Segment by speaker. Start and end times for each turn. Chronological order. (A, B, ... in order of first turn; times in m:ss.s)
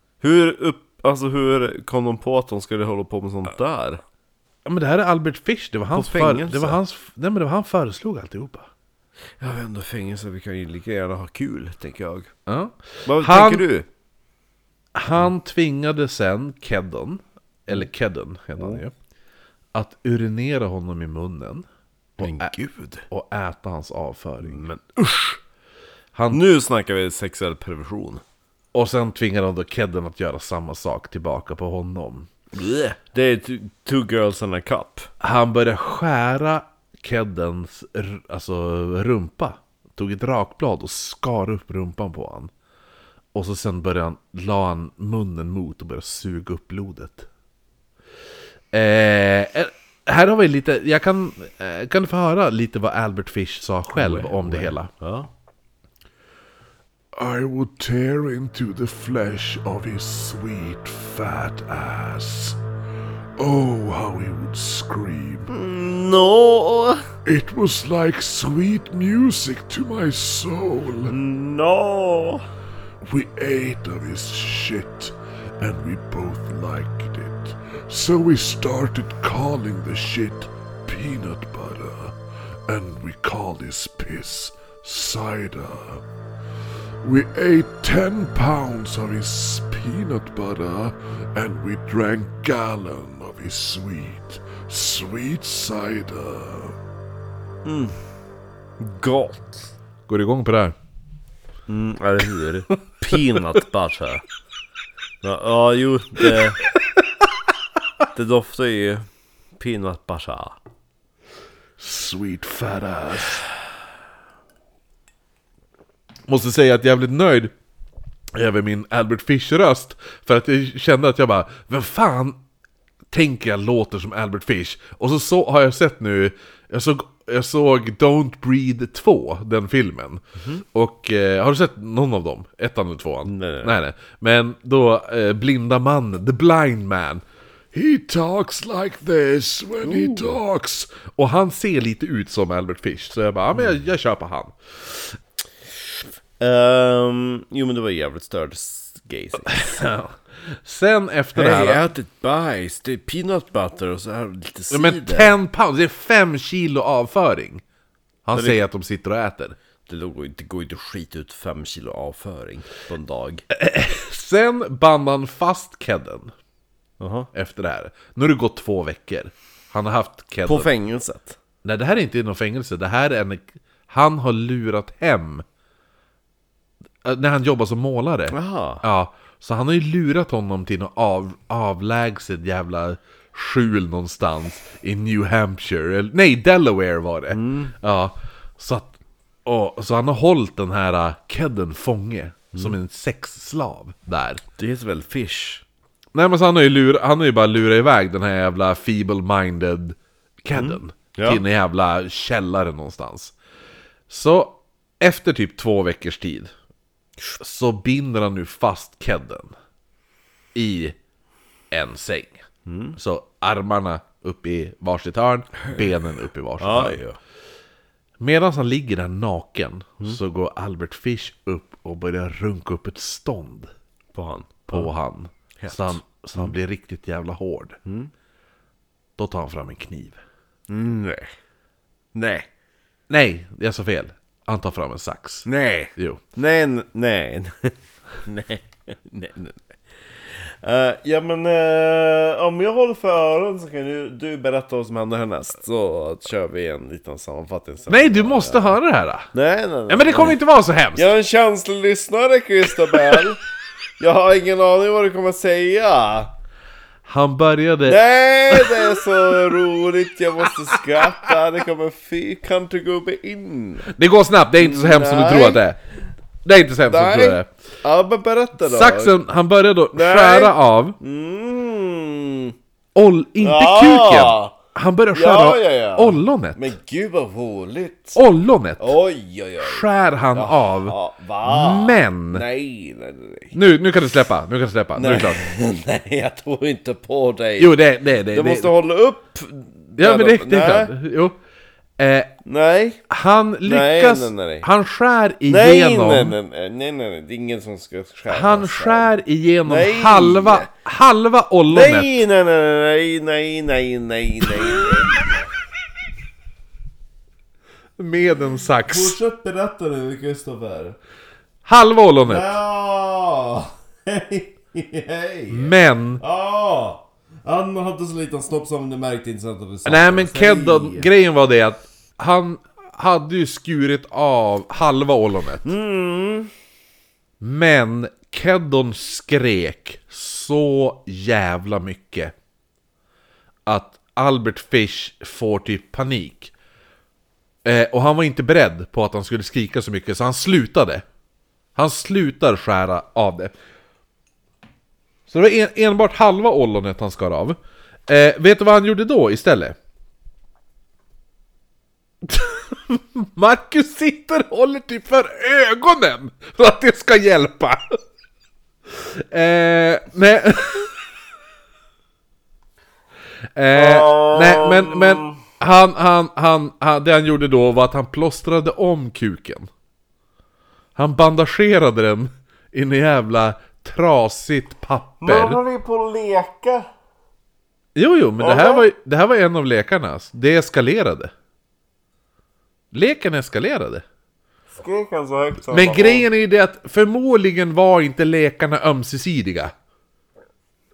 0:00.2-0:04.0 A
0:04.6-0:08.7 B
0:05.9-0:06.8 A
0:09.4-0:12.3 A
0:12.5-0:13.6 B
0:13.0-0:13.9 A
0:14.9-0:18.9 B
0:18.6-0:18.8 A
0:19.7-0:21.6 B
0:22.2-0:22.5 B
0:22.2-0:23.0 A
0:23.1-0:24.6 B
0:24.4-0:25.4 A
0:26.1-0:26.4 B
0:26.3-0:28.2 A
0:28.7-0:32.3 B
0:32.5-0:35.1 A
0:35.2-0:42.5 B
0:43.3-0:47.3 B
0:48.7-0:54.9 B
0:53.9-0:55.3 A
0:57.1-1:02.6 C
1:03.4-1:05.5 C
1:05.5-1:07.1 A
1:07.2-1:11.2 C
1:11.1-1:12.4 A
1:13.0-1:22.1 C
1:22.7-1:26.0 C
1:27.0-1:36.7 C
1:37.6-1:38.0 A
1:38.8-1:39.7 A
1:40.1-1:40.8 B
1:41.7-1:44.2 A
1:45.2-1:46.6 A
1:48.1-1:49.0 A
1:49.6-1:50.6 A
1:51.8-1:53.2 C
1:53.0-1:53.4 B
1:56.3-1:57.5 B
1:58.3-2:02.4 B
2:03.1-2:17.2 B
2:10.4-2:10.6 A
2:13.2-2:13.8 A
2:17.7-2:20.8 C
2:19.8-2:20.4 A
2:20.9-2:25.2 B
2:26.4-2:29.8 A
2:29.4-2:31.8 B
2:31.3-2:35.4 A
2:34.7-2:37.6 B
2:38.2-2:39.6 B
2:38.3-2:38.6 A
2:39.9-2:43.4 A
2:43.5-2:46.3 B
2:47.0-2:47.3 A
2:47.3-2:50.7 B
2:50.4-2:51.4 A
2:51.6-2:55.4 B
2:57.0-3:14.4 B
2:58.3-2:58.8 A
3:07.3-3:07.7 A
3:14.6-3:15.6 A
3:16.1-3:23.3 B
3:20.5-3:21.4 A
3:24.1-3:26.5 B
3:27.4-3:29.5 B
3:30.5-3:31.0 B
3:31.7-3:32.4 B
3:32.6-3:33.0 A
3:33.0-3:37.0 B
3:36.6-3:37.2 A
3:38.2-3:43.7 B
3:44.1-3:44.9 A
3:44.7-3:47.8 B
3:45.6-3:46.5 A
3:47.8-3:48.1 A
3:49.2-3:50.2 B
3:50.7-3:51.3 A
3:52.1-3:52.5 A
3:53.1-3:56.2 B
3:55.4-3:59.6 A
4:00.3-4:08.7 A
4:07.9-4:09.3 B
4:09.3-4:10.4 A
4:09.9-4:11.1 B
4:10.9-4:13.4 A
4:14.0-4:16.3 A
4:17.1-4:18.9 B
4:17.8-4:23.9 A
4:23.9-4:25.8 B
4:24.6-4:25.6 A
4:26.4-4:27.5 B
4:26.9-4:29.2 A
4:28.6-4:31.0 B
4:29.9-4:32.5 A
4:32.9-4:36.7 B
4:33.4-4:34.6 A
4:35.1-4:38.2 A
4:38.1-4:38.9 B
4:38.8-4:43.5 A
4:39.6-4:42.4 B
4:43.5-4:45.4 B
4:45.0-4:47.8 A
4:47.6-4:48.7 B
4:48.3-4:50.9 A
4:50.0-4:51.4 B
4:52.0-4:52.3 B
4:52.4-4:53.0 A
4:53.1-4:56.3 B
4:53.6-4:54.7 A
4:55.5-4:59.1 A
4:58.3-5:02.1 B
4:59.6-5:00.7 A
5:01.7-5:05.5 A
5:08.0-5:09.2 B
5:08.9-5:11.0 A
5:11.6-5:12.6 B
5:12.2-5:21.1 A
5:15.5-5:16.2 B
5:19.8-5:25.7 B
5:25.6-5:26.5 A
5:27.4-5:32.3 B
5:33.7-5:36.5 B
5:37.6-5:41.0 B
5:41.8-5:43.5 B
5:45.3-5:47.6 B
5:48.1-5:49.8 B
5:52.2-5:58.0 B
5:59.1-6:00.9 B
6:03.5-6:09.7 B
6:03.7-6:05.4 A
6:11.0-6:15.6 B
6:15.2-6:16.9 A
6:18.0-6:21.3 B
6:18.4-6:18.9 A
6:22.9-6:24.0 B
6:24.7-6:26.3 A
6:25.7-6:29.7 B